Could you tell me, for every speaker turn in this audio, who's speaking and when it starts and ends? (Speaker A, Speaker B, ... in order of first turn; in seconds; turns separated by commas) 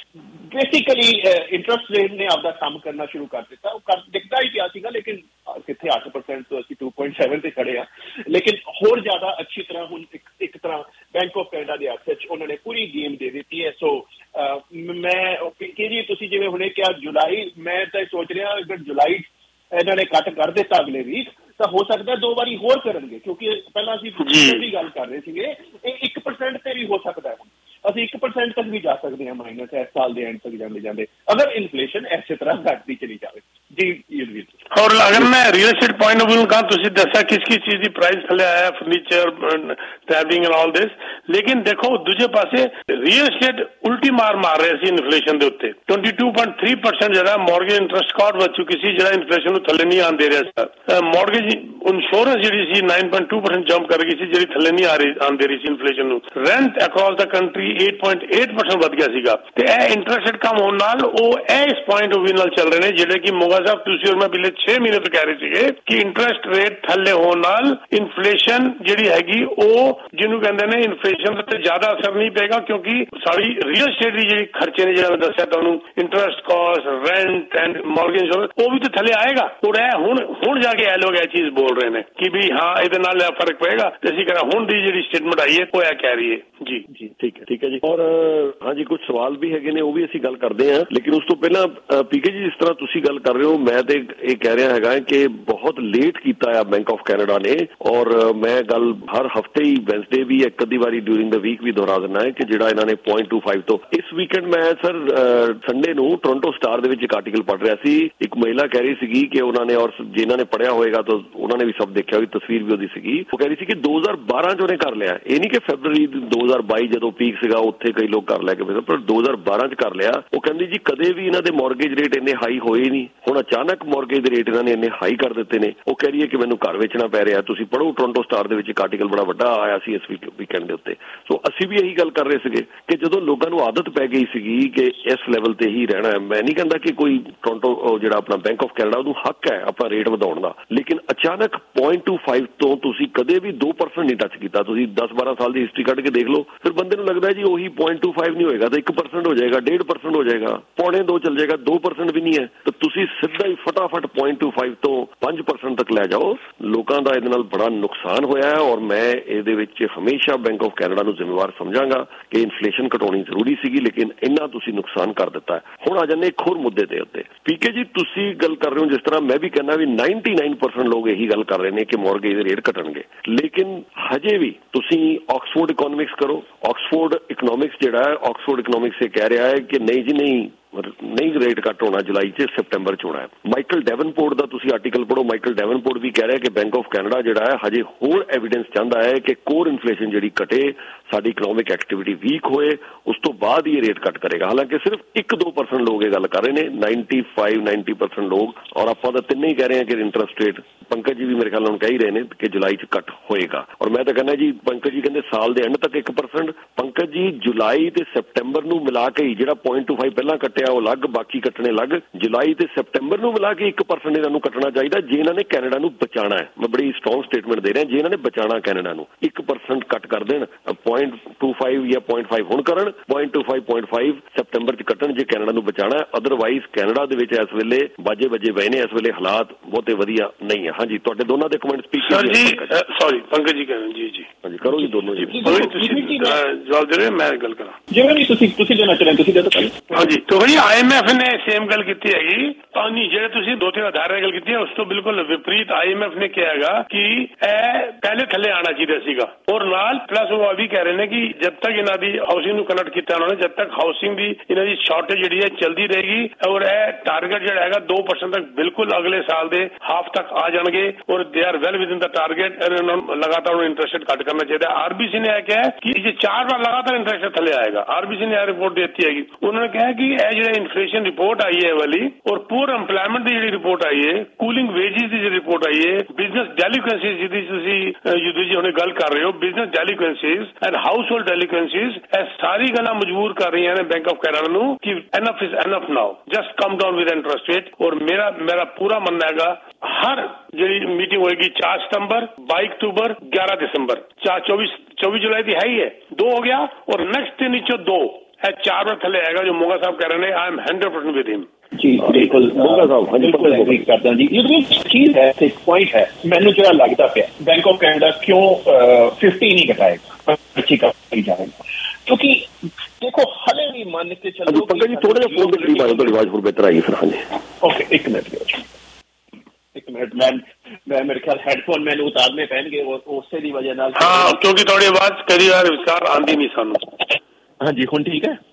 Speaker A: 0.5-34.5, Speaker B: 24.2-24.7, Speaker B: 34.7-86.8, Speaker C: 87.2-232.7, Speaker B: 232.0-234.3, Speaker C: 234.4-235.4, Speaker A: 234.7-236.4, Speaker B: 235.4-237.8, Speaker A: 237.9-240.1, Speaker B: 239.9-301.5, Speaker A: 301.7-316.1, Speaker C: 302.0-303.9, Speaker C: 314.5-317.3, Speaker A: 317.6-318.6, Speaker A: 319.7-324.4, Speaker B: 323.9-327.0, Speaker A: 327.6-328.4